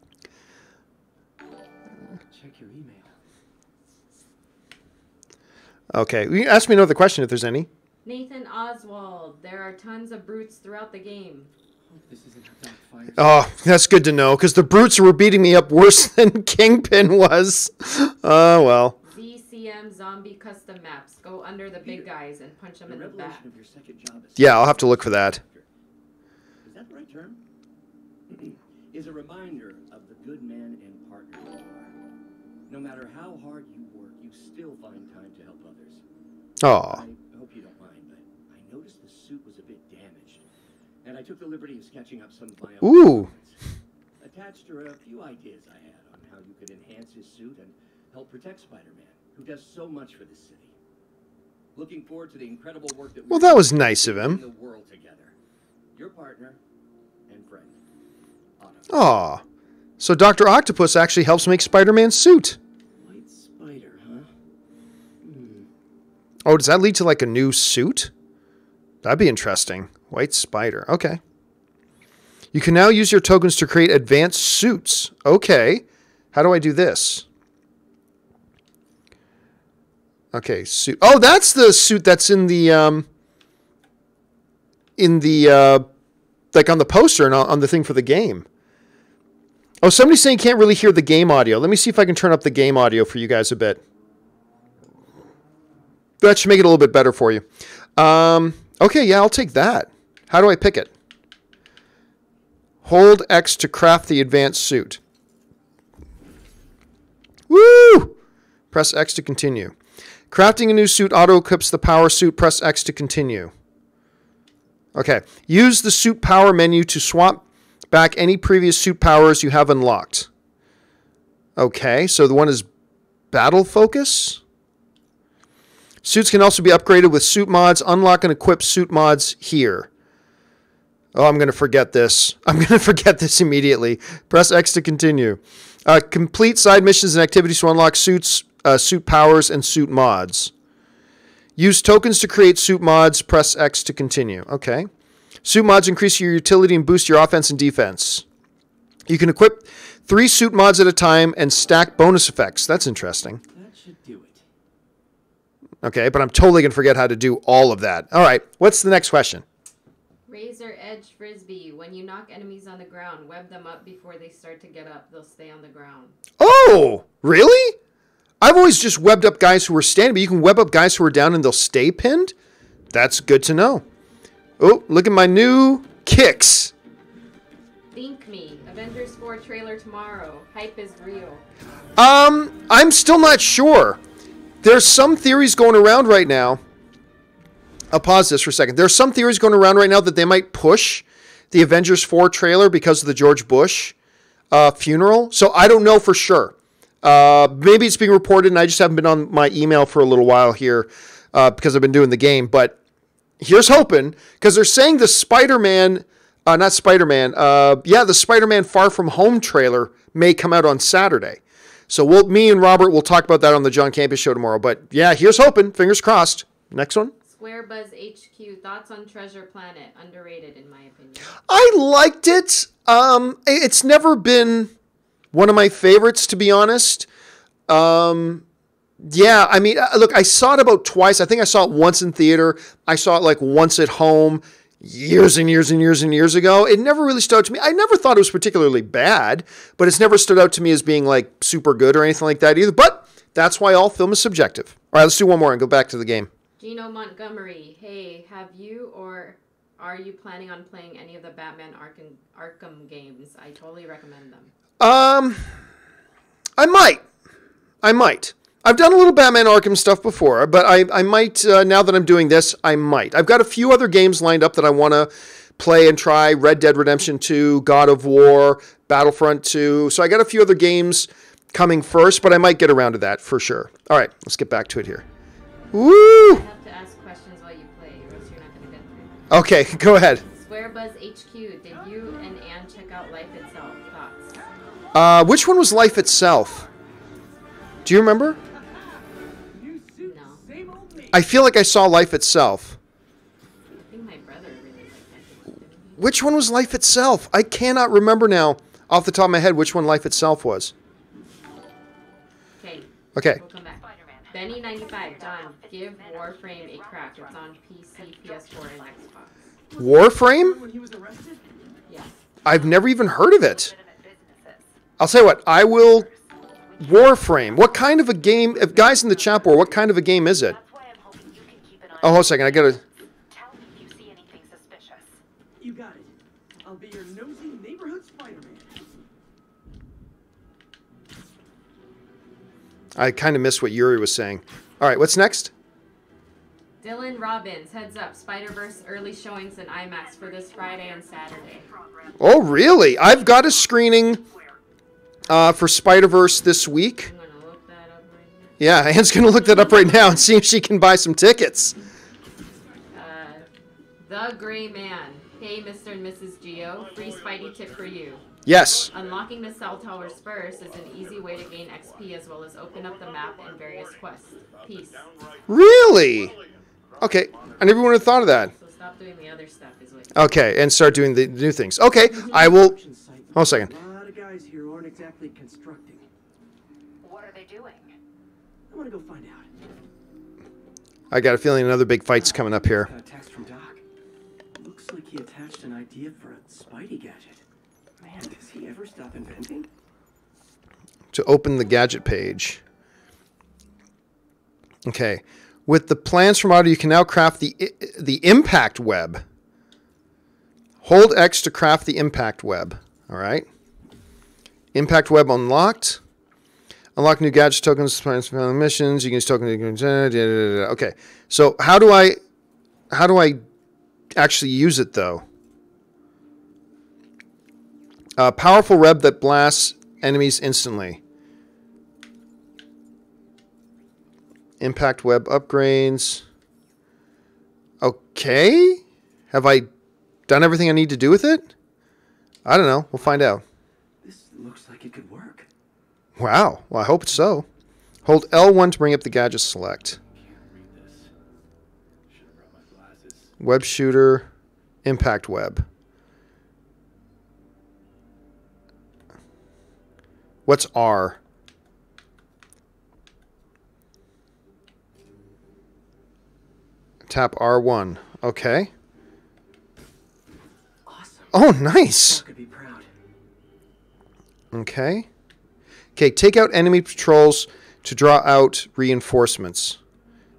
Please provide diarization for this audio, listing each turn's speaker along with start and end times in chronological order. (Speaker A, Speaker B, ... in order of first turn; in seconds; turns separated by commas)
Speaker A: 2.3-3.1, Speaker B: 5.9-7.7, Speaker C: 8.1-11.5, Speaker A: 11.9-13.3, Speaker B: 13.2-18.9, Speaker C: 19.0-23.4, Speaker D: 21.8-22.1, Speaker D: 22.9-25.6, Speaker B: 24.4-25.4, Speaker D: 26.6-27.4, Speaker D: 28.4-31.9, Speaker D: 32.7-36.0, Speaker B: 36.6-37.0, Speaker D: 36.7-40.4, Speaker D: 41.0-43.6, Speaker B: 42.8-43.3, Speaker D: 44.2-50.8, Speaker D: 51.8-55.3, Speaker B: 53.3-54.4, Speaker D: 55.9-56.6, Speaker D: 57.3-57.8, Speaker D: 58.6-59.0, Speaker B: 58.9-59.4, Speaker B: 60.0-62.6, Speaker A: 63.0-63.6, Speaker D: 63.0-64.3, Speaker D: 65.2-65.7, Speaker B: 66.4-68.1, Speaker B: 69.0-71.2, Speaker B: 72.5-77.2, Speaker B: 80.3-83.1, Speaker B: 85.0-85.9, Speaker B: 86.5-88.4, Speaker B: 89.8-93.8, Speaker B: 96.2-97.4, Speaker B: 98.0-100.9, Speaker B: 102.8-105.0, Speaker B: 107.5-108.1, Speaker B: 108.7-109.7, Speaker B: 110.3-113.5, Speaker B: 114.9-120.3, Speaker B: 121.6-122.7, Speaker B: 123.3-124.4, Speaker B: 126.0-129.9, Speaker B: 131.1-140.5, Speaker B: 141.6-144.9, Speaker B: 145.4-148.2, Speaker B: 149.1-153.4, Speaker A: 153.5-154.4, Speaker B: 155.8-159.4, Speaker C: 160.3-166.2, Speaker B: 166.4-167.8, Speaker B: 168.4-172.3, Speaker B: 172.9-173.8, Speaker B: 174.6-176.7, Speaker C: 177.9-181.4, Speaker B: 182.0-184.0, Speaker B: 184.6-186.6, Speaker B: 187.9-193.9, Speaker B: 194.5-202.8, Speaker B: 203.4-217.1, Speaker C: 217.2-221.3, Speaker B: 221.5-224.7, Speaker B: 225.3-227.1, Speaker B: 227.7-228.4, Speaker B: 229.0-246.3, Speaker C: 246.6-254.5, Speaker B: 254.8-255.4, Speaker B: 256.6-257.0, Speaker B: 257.8-275.0, Speaker B: 275.7-276.4, Speaker C: 276.2-279.3, Speaker B: 279.3-280.2, Speaker C: 280.2-284.4, Speaker A: 284.4-285.2, Speaker B: 284.9-286.7, Speaker B: 287.9-288.4, Speaker A: 289.5-291.3, Speaker C: 290.0-290.4, Speaker B: 291.1-292.8, Speaker C: 293.8-296.1, Speaker B: 296.0-300.7, Speaker C: 302.6-309.3, Speaker B: 303.1-303.4, Speaker E: 303.7-309.0, Speaker A: 309.7-311.4, Speaker B: 309.8-310.6, Speaker C: 311.9-312.2, Speaker B: 312.4-313.7, Speaker E: 312.5-314.8, Speaker B: 315.0-316.1, Speaker E: 315.9-318.1, Speaker B: 316.8-320.6, Speaker C: 318.5-319.9, Speaker E: 320.4-325.2, Speaker B: 322.0-322.8, Speaker A: 325.6-328.8, Speaker B: 333.0-335.5, Speaker C: 336.8-341.7, Speaker E: 339.9-344.6, Speaker B: 342.2-344.2, Speaker B: 345.3-347.1, Speaker C: 347.0-348.6, Speaker B: 348.6-351.8, Speaker C: 352.9-353.5, Speaker C: 354.0-358.2, Speaker D: 356.8-358.0, Speaker B: 358.4-358.9, Speaker C: 358.9-365.1, Speaker D: 360.7-362.0, Speaker D: 362.8-365.4, Speaker B: 365.5-366.4, Speaker B: 367.0-368.5, Speaker C: 368.2-370.1, Speaker B: 370.1-372.8, Speaker A: 372.1-376.1, Speaker B: 373.4-373.7, Speaker E: 377.0-377.9, Speaker A: 378.7-379.5, Speaker B: 381.1-382.9, Speaker A: 382.1-383.8, Speaker A: 384.5-387.4, Speaker A: 388.0-389.7, Speaker B: 391.1-392.6, Speaker B: 394.9-399.2, Speaker B: 400.8-403.5, Speaker B: 404.7-406.0, Speaker B: 407.0-412.2, Speaker B: 412.9-413.4, Speaker B: 414.1-415.2, Speaker B: 418.2-421.0, Speaker B: 424.6-426.2, Speaker B: 427.8-429.7, Speaker B: 430.3-431.5, Speaker B: 432.4-433.4, Speaker A: 434.0-435.5, Speaker B: 436.2-437.5, Speaker B: 438.0-440.0, Speaker D: 440.1-441.1, Speaker D: 442.1-443.3, Speaker B: 443.4-444.3, Speaker B: 444.9-445.6, Speaker B: 450.5-451.2, Speaker B: 457.1-458.7, Speaker A: 460.9-462.9, Speaker B: 461.3-462.2, Speaker B: 464.5-465.1, Speaker B: 466.0-469.8